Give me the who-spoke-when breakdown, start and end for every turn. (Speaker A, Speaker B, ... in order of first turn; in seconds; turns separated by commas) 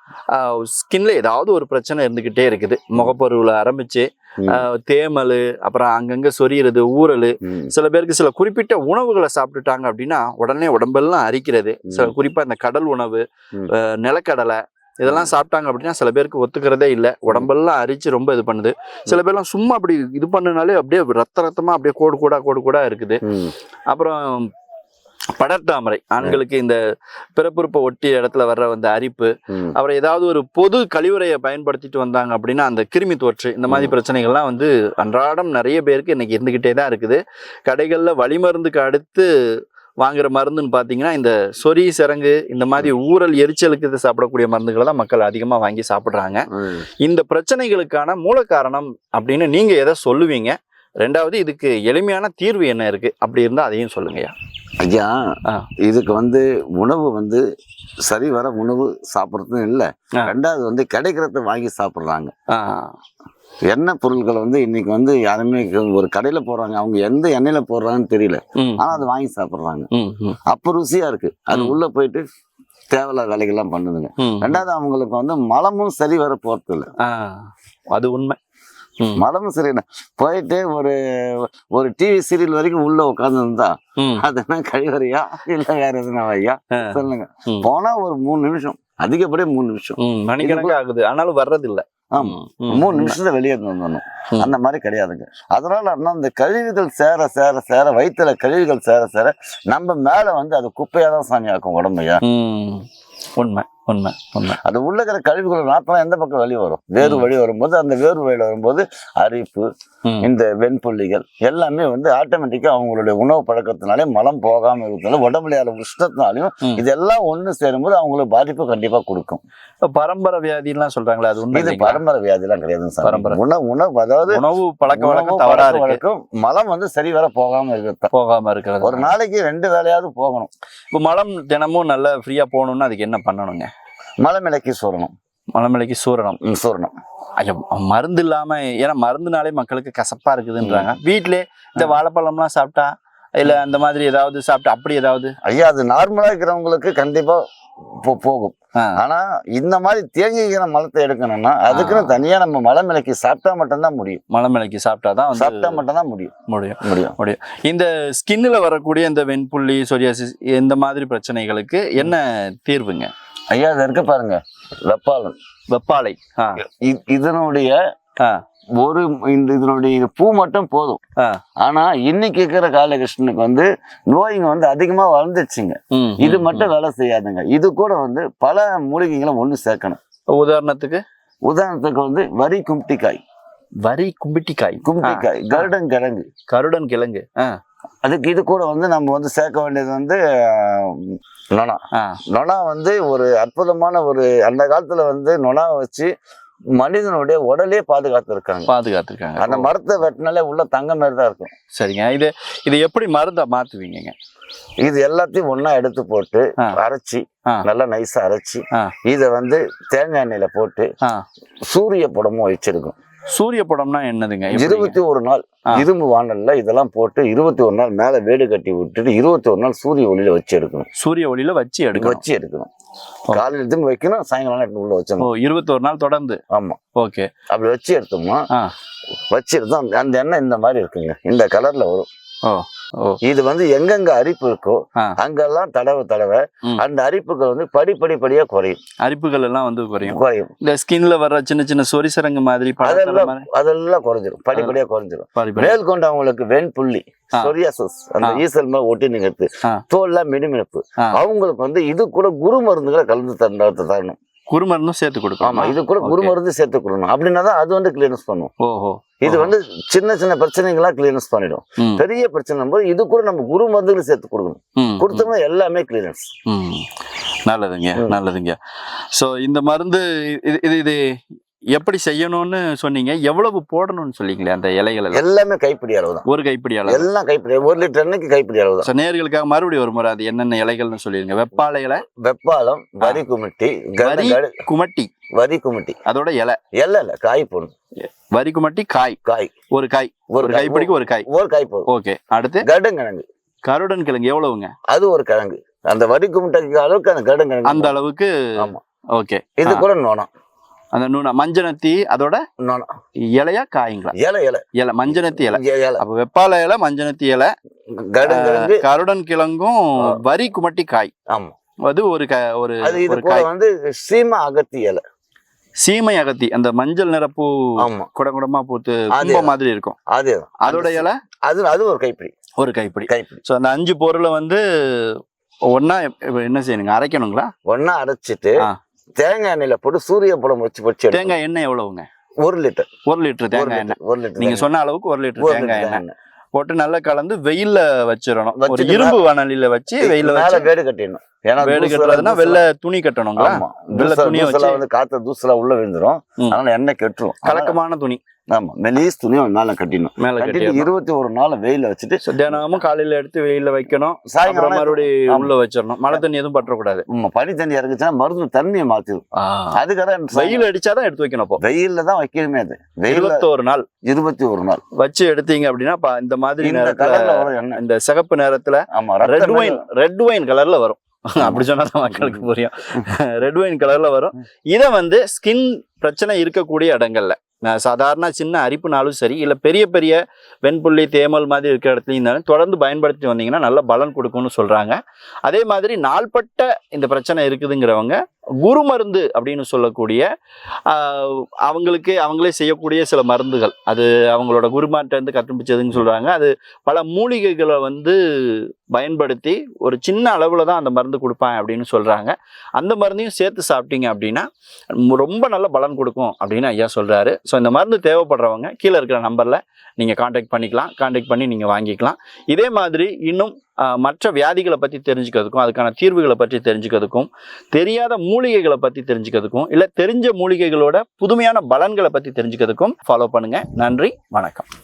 Speaker A: 0.3-23.2, Speaker B: 7.4-7.7, Speaker B: 11.9-12.1, Speaker B: 23.2-23.5, Speaker A: 23.9-24.5, Speaker A: 25.4-26.8, Speaker A: 27.4-39.3, Speaker B: 33.7-33.9, Speaker A: 40.0-46.5, Speaker B: 46.5-46.9, Speaker A: 47.0-54.3, Speaker B: 54.8-55.1, Speaker B: 55.9-57.4, Speaker B: 58.1-62.3, Speaker A: 62.5-62.9, Speaker B: 63.7-69.9, Speaker A: 68.6-69.0, Speaker A: 69.9-70.4, Speaker B: 70.5-72.2, Speaker A: 71.5-71.8, Speaker B: 72.9-76.9, Speaker A: 74.2-74.6, Speaker A: 77.0-78.4, Speaker B: 79.2-90.8, Speaker A: 84.0-84.2, Speaker A: 86.8-87.7, Speaker A: 90.0-93.2, Speaker B: 92.1-102.2, Speaker A: 102.2-102.8, Speaker A: 103.4-104.6, Speaker B: 104.6-109.7, Speaker A: 107.0-107.3, Speaker B: 110.2-119.4, Speaker A: 119.9-122.0, Speaker B: 121.5-124.4, Speaker A: 123.0-123.4, Speaker A: 124.3-126.0, Speaker B: 124.9-128.1, Speaker A: 128.1-129.1, Speaker B: 128.8-130.5, Speaker A: 130.9-133.7, Speaker B: 134.2-135.1, Speaker A: 135.6-136.4, Speaker B: 136.4-136.9, Speaker A: 137.4-145.3, Speaker B: 140.6-140.9, Speaker B: 145.4-147.4, Speaker B: 148.0-154.2, Speaker A: 151.7-152.2, Speaker A: 154.3-155.8, Speaker B: 155.3-156.3, Speaker A: 156.5-163.1, Speaker B: 156.8-157.2, Speaker B: 163.5-165.3, Speaker A: 165.7-166.6, Speaker B: 166.6-167.8, Speaker B: 168.8-171.0, Speaker B: 171.6-180.0, Speaker A: 175.9-176.7, Speaker A: 180.3-181.0, Speaker B: 181.5-183.2, Speaker A: 183.8-185.7, Speaker B: 184.8-186.3, Speaker A: 186.5-187.5, Speaker B: 188.1-191.8, Speaker A: 191.9-192.2, Speaker B: 192.3-196.1, Speaker B: 196.8-198.7, Speaker A: 198.7-199.7, Speaker B: 199.4-201.5, Speaker A: 201.8-204.1, Speaker B: 204.8-210.9, Speaker B: 211.7-213.0, Speaker A: 213.3-215.0, Speaker B: 214.5-220.9, Speaker A: 221.0-222.2, Speaker B: 222.0-222.7, Speaker B: 223.3-225.3, Speaker A: 225.2-226.4, Speaker B: 226.5-226.8, Speaker A: 227.0-227.3, Speaker B: 227.5-228.4, Speaker B: 229.3-232.1, Speaker A: 232.4-233.2, Speaker B: 233.2-238.8, Speaker A: 239.0-243.5, Speaker B: 240.1-240.5, Speaker B: 242.8-254.2, Speaker A: 245.4-245.8, Speaker A: 254.5-256.3, Speaker B: 255.4-258.5, Speaker A: 258.6-259.5, Speaker B: 259.2-266.3, Speaker A: 264.8-265.3, Speaker A: 266.5-266.9, Speaker A: 267.5-268.6, Speaker A: 269.1-271.0, Speaker A: 271.7-275.2, Speaker B: 275.1-276.2, Speaker A: 276.3-277.1, Speaker B: 276.9-278.9, Speaker A: 278.8-282.0, Speaker B: 282.1-284.6, Speaker A: 284.0-285.1, Speaker B: 285.4-286.0, Speaker A: 286.1-286.6, Speaker B: 286.8-287.7, Speaker A: 288.1-289.2, Speaker B: 289.2-289.5, Speaker A: 289.7-291.2, Speaker B: 290.3-291.9, Speaker A: 291.9-292.7, Speaker B: 292.6-293.2, Speaker A: 293.6-294.7, Speaker B: 294.9-297.9, Speaker A: 297.6-298.3, Speaker A: 299.1-299.9, Speaker B: 299.6-300.3, Speaker A: 300.9-302.4, Speaker B: 302.6-302.9, Speaker A: 303.2-304.1, Speaker B: 304.1-306.0, Speaker A: 304.8-307.5, Speaker B: 308.0-308.8, Speaker A: 308.2-311.1, Speaker A: 311.9-313.5, Speaker B: 312.8-315.0, Speaker A: 315.8-320.0, Speaker B: 317.8-318.1, Speaker B: 319.1-319.5, Speaker B: 320.1-322.3, Speaker A: 320.6-321.1, Speaker A: 322.6-327.5, Speaker B: 323.1-323.4, Speaker B: 327.7-328.6, Speaker B: 329.2-331.4, Speaker A: 331.1-332.1, Speaker B: 332.4-332.9, Speaker A: 333.1-336.0, Speaker B: 333.5-334.7, Speaker B: 335.4-336.1, Speaker A: 336.5-340.7, Speaker B: 338.6-339.2, Speaker B: 340.0-342.6, Speaker A: 341.6-344.8, Speaker B: 343.4-347.8, Speaker A: 347.4-348.2, Speaker B: 348.5-352.8, Speaker A: 350.2-350.9, Speaker A: 352.2-357.1, Speaker B: 354.3-355.5, Speaker B: 357.1-359.2, Speaker A: 359.4-359.8, Speaker B: 359.8-360.6, Speaker A: 360.3-361.6, Speaker B: 361.6-363.4, Speaker A: 363.1-363.9, Speaker B: 364.1-364.8, Speaker A: 365.0-390.2, Speaker B: 366.6-367.8, Speaker B: 368.9-369.8, Speaker B: 371.4-372.4, Speaker A: 390.9-424.7